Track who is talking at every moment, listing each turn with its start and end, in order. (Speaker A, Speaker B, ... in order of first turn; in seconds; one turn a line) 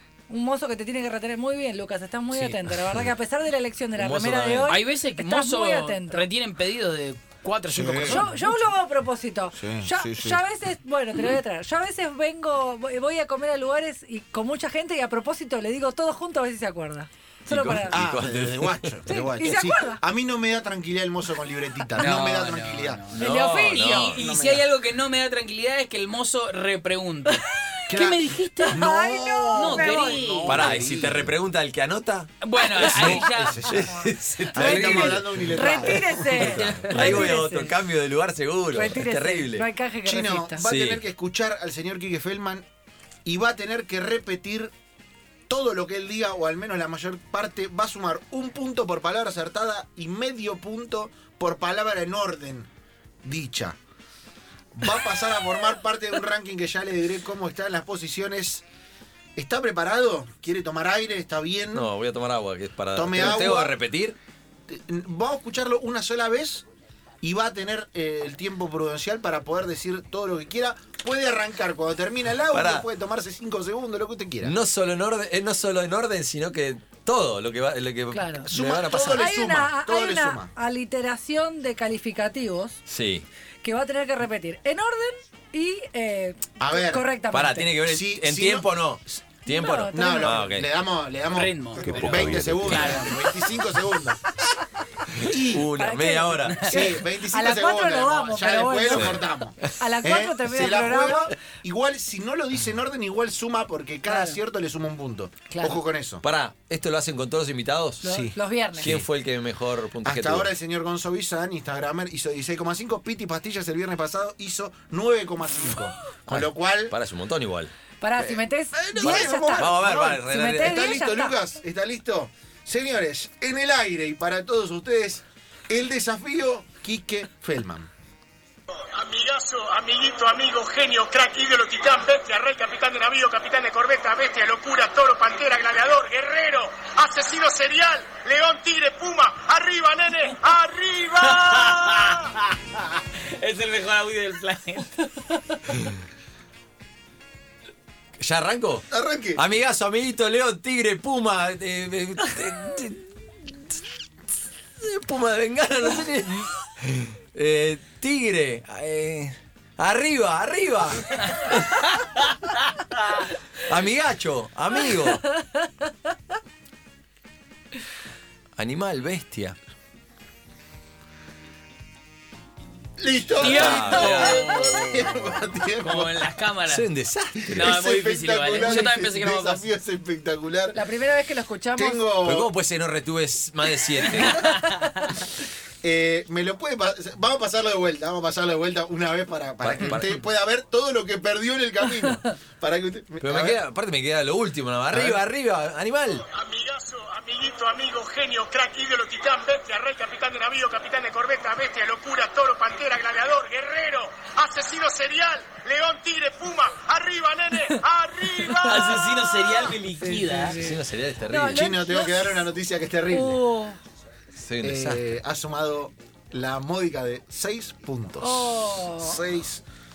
Speaker A: 0.3-6.2
Speaker B: 2.3-2.6
Speaker C: 3.9-4.8
Speaker B: 4.7-8.5
Speaker D: 7.7-8.2
Speaker A: 8.1-17.9
Speaker D: 9.5-10.4
Speaker C: 17.5-18.9
Speaker D: 17.9-23.0
Speaker A: 19.1-20.0
Speaker B: 22.0-28.9
Speaker C: 23.1-24.2
Speaker A: 23.2-24.1
Speaker D: 24.2-24.6
Speaker D: 27.9-31.3
Speaker A: 28.6-30.4
Speaker B: 29.5-30.6
Speaker C: 30.4-39.7
Speaker B: 32.4-33.7
Speaker D: 32.8-36.9
Speaker A: 34.6-37.7
Speaker B: 36.4-37.5
Speaker A: 38.7-40.6
Speaker D: 40.0-42.6
Speaker C: 40.6-41.0
Speaker D: 43.2-44.7
Speaker D: 45.5-52.7
Speaker D: 53.2-53.8
Speaker D: 54.7-58.6
Speaker D: 59.4-61.9
Speaker C: 61.7-64.2
Speaker D: 62.9-63.8
Speaker D: 64.7-66.6
Speaker D: 67.2-74.5
Speaker C: 72.5-72.9
Speaker C: 74.4-79.4
Speaker A: 78.1-78.5
Speaker D: 78.5-80.5
Speaker A: 79.0-82.8
Speaker C: 82.9-83.3
Speaker A: 83.6-87.7
Speaker D: 86.6-87.1
Speaker C: 87.3-90.7
Speaker D: 87.8-89.2
Speaker A: 89.5-90.4
Speaker D: 89.9-94.2
Speaker B: 91.3-93.4
Speaker C: 91.8-92.9
Speaker C: 95.1-96.7
Speaker D: 95.2-95.7
Speaker A: 95.7-101.3
Speaker D: 96.7-106.2
Speaker C: 98.9-99.8
Speaker A: 104.1-104.4
Speaker A: 105.5-105.8
Speaker C: 106.2-110.5
Speaker D: 108.0-109.0
Speaker A: 108.0-108.9
Speaker D: 110.0-117.0
Speaker C: 116.3-117.7
Speaker A: 118.0-121.3
Speaker D: 118.2-119.8
Speaker C: 119.0-121.0
Speaker D: 120.6-127.9
Speaker E: 128.9-142.2
Speaker B: 141.3-142.4
Speaker B: 143.1-144.9
Speaker C: 148.2-153.8
Speaker D: 148.9-149.4
Speaker C: 154.8-161.9
Speaker C: 163.6-165.2
Speaker C: 168.6-169.6
Speaker D: 173.0-176.2
Speaker B: 173.4-175.2
Speaker C: 173.4-174.8
Speaker B: 175.8-176.9
Speaker C: 176.7-177.8
Speaker D: 177.5-180.8
Speaker B: 177.5-179.6
Speaker A: 180.7-182.0
Speaker D: 181.8-182.5
Speaker C: 182.2-184.4
Speaker A: 184.2-185.2
Speaker D: 185.8-193.6
Speaker C: 189.6-190.2
Speaker C: 193.2-196.2
Speaker D: 194.9-195.2
Speaker E: 196.2-209.3
Speaker A: 208.5-208.9
Speaker B: 208.6-210.6
Speaker A: 210.0-212.5
Speaker C: 210.5-211.7
Speaker D: 211.5-213.4
Speaker A: 213.1-213.8
Speaker C: 214.3-215.1
Speaker D: 214.6-219.6
Speaker A: 218.2-219.2